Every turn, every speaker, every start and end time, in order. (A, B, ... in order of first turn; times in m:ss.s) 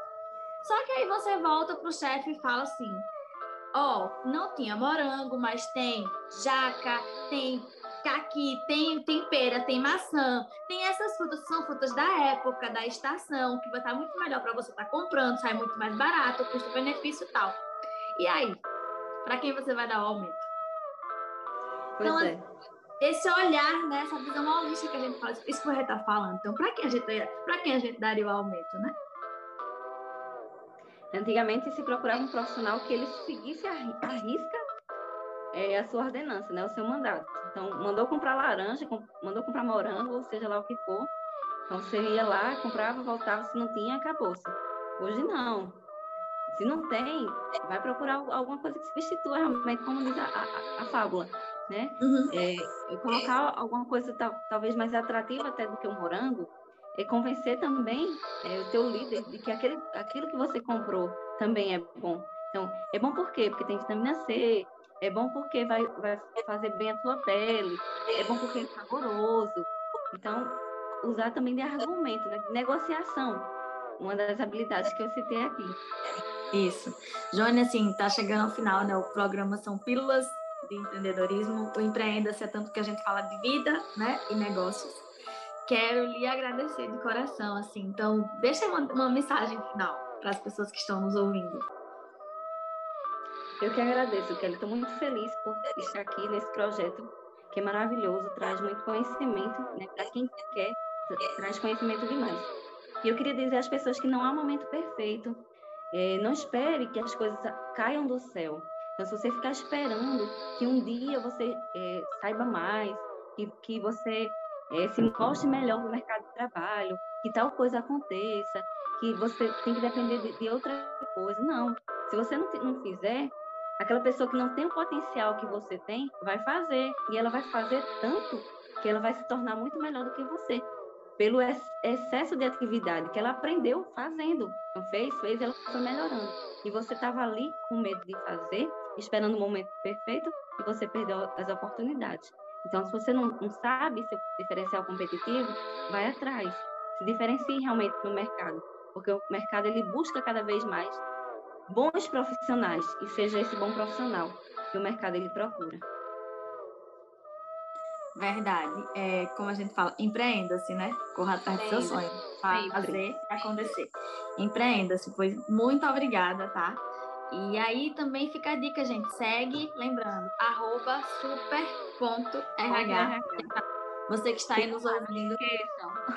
0:00.6-0:03.1 A
0:03.7-0:17.6 A
0:18.2-0:18.6 A
0:19.2-0:20.5 A
0:22.0-0:22.4 B
0:22.0-0:22.4 A
0:23.0-0:29.0 A
0:31.1-0:34.6 B
0:35.5-0:41.1 B
0:41.7-0:45.8 B
0:46.5-1:15.8 B
0:52.0-0:52.3 A
1:16.5-1:25.1 A
1:25.6-1:31.7 A
1:33.6-2:10.6 B
2:11.2-2:31.0 B
2:31.7-2:35.8 B
2:38.2-2:55.4 A
2:41.6-2:43.0 B
2:52.7-2:53.5 B
2:54.6-2:56.0 B